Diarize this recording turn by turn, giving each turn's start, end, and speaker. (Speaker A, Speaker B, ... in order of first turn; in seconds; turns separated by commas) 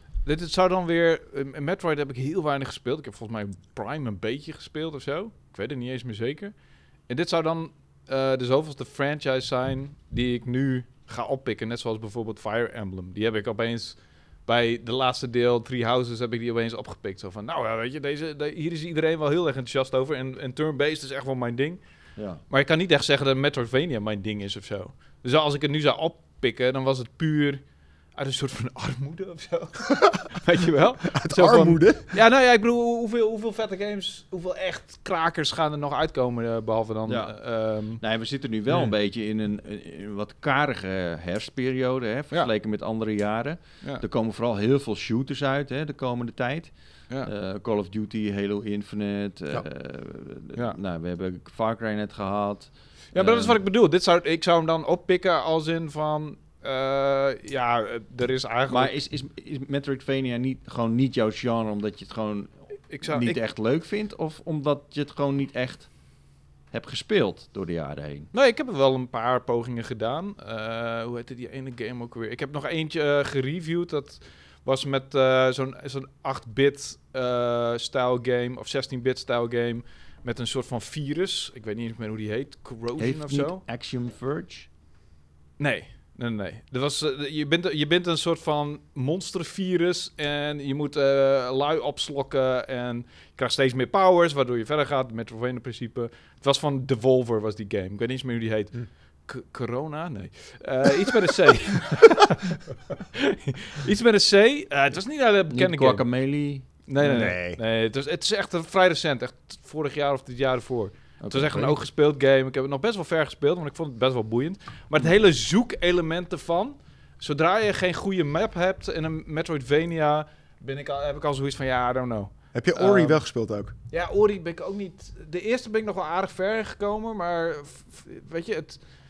Speaker A: 0.2-6.5, Speaker A: 7.1-21.8, Speaker B: 22.2-22.4, Speaker A: 22.5-27.6, Speaker A: 28.2-38.0, Speaker C: 31.1-32.1, Speaker B: 37.1-37.3, Speaker B: 38.0-46.7, Speaker B: 47.2-53.6, Speaker A: 53.1-58.9, Speaker B: 58.7-65.9, Speaker A: 62.9-63.4, Speaker B: 66.7-68.3, Speaker A: 68.3-83.6, Speaker B: 83.0-84.7, Speaker A: 85.6-106.0, Speaker B: 105.5-106.7, Speaker A: 106.9-123.2, Speaker C: 107.0-107.6, Speaker B: 111.2-111.7, Speaker C: 122.5-123.7, Speaker A: 123.9-128.8